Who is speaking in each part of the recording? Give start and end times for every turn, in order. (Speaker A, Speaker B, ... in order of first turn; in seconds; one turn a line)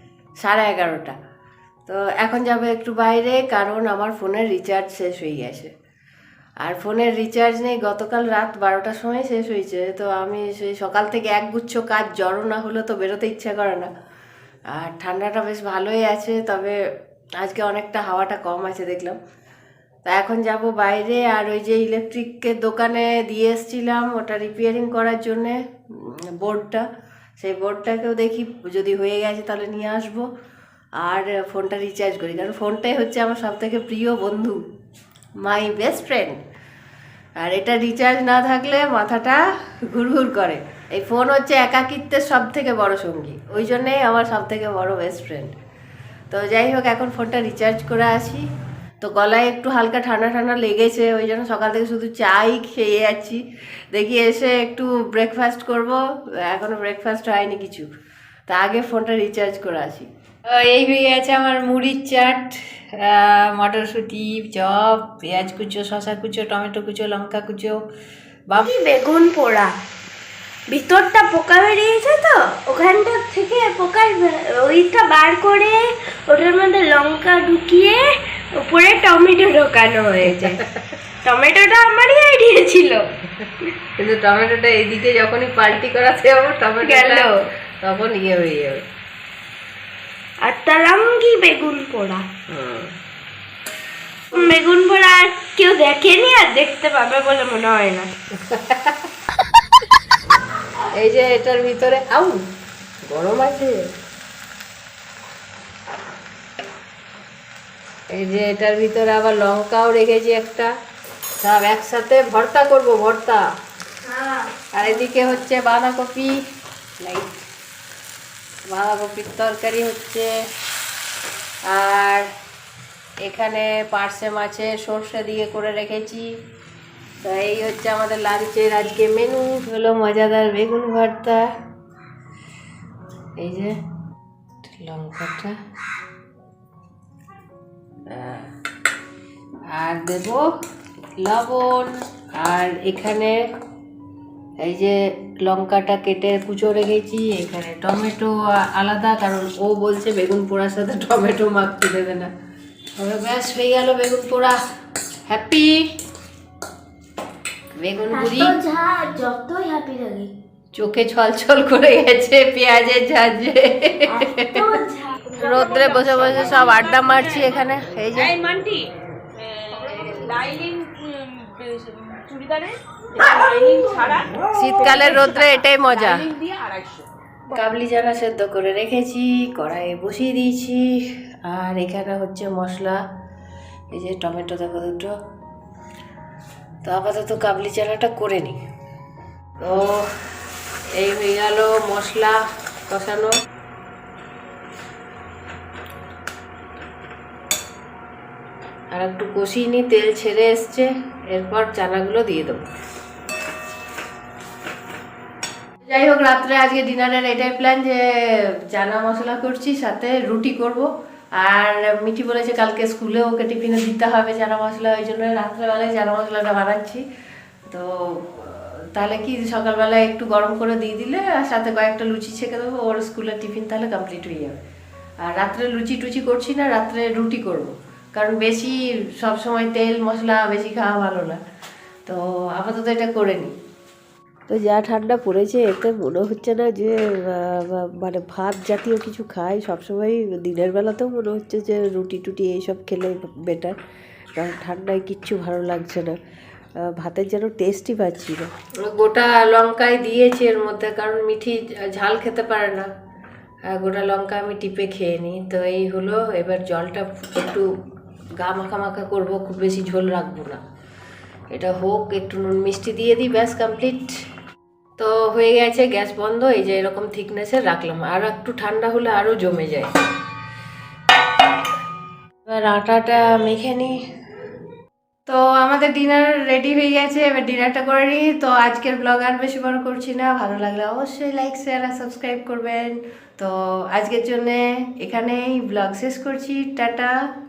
Speaker A: 0.4-1.1
Speaker A: 1.9-5.7
Speaker A: 6.6-13.9
Speaker A: 14.7-16.8
Speaker A: 17.4-19.2
Speaker A: 20.1-26.9
Speaker A: 27.4-30.2
Speaker A: 31.0-34.6
Speaker A: 35.4-36.4
Speaker A: 37.4-45.5
Speaker A: 46.3-48.4
Speaker A: 49.0-57.9
Speaker A: 58.5-67.8
Speaker B: 68.6-69.7
Speaker B: 70.7-80.6
Speaker A: 80.3-80.7
Speaker B: 81.2-83.1
Speaker A: 84.0-88.8
Speaker B: 86.8-87.4
Speaker B: 90.4-92.3
Speaker A: 92.5-92.9
Speaker B: 94.3-98.1
Speaker A: 98.4-99.0
Speaker A: 100.9-102.4
Speaker A: 103.0-103.9
Speaker A: 108.1-110.7
Speaker A: 111.4-113.4
Speaker B: 114.1-115.2
Speaker A: 114.7-116.3
Speaker A: 117.0-117.4
Speaker A: 118.7-120.3
Speaker A: 121.7-122.3
Speaker A: 123.2-126.3
Speaker A: 127.2-131.5
Speaker A: 133.4-133.8
Speaker A: 134.6-135.6
Speaker A: 138.1-138.5
Speaker A: 139.7-140.4
Speaker A: 141.2-143.4
Speaker A: 144.6-152.3
Speaker A: 153.0-154.6
Speaker A: 155.3-155.8
Speaker A: 157.8-158.6
Speaker B: 158.1-160.3
Speaker A: 160.7-164.6
Speaker B: 164.1-166.9
Speaker A: 165.4-168.3
Speaker C: 166.3-167.5
Speaker C: 168.1-177.0
Speaker A: 174.5-176.3
Speaker A: 177.5-180.9
Speaker A: 181.4-183.0
Speaker A: 183.9-185.1
Speaker A: 186.8-188.6
Speaker A: 189.6-190.1
Speaker A: 190.9-193.3
Speaker A: 198.9-202.6
Speaker A: 205.8-217.0
Speaker A: 217.7-224.6
Speaker A: 225.2-231.4
Speaker A: 232.1-233.5
Speaker A: 234.5-243.8
Speaker A: 244.4-246.2
Speaker A: 246.8-252.9
Speaker A: 253.7-257.7
Speaker A: 258.4-260.6
Speaker A: 261.5-264.1
Speaker A: 265.0-269.9
Speaker A: 272.5-274.0
Speaker A: 275.3-287.1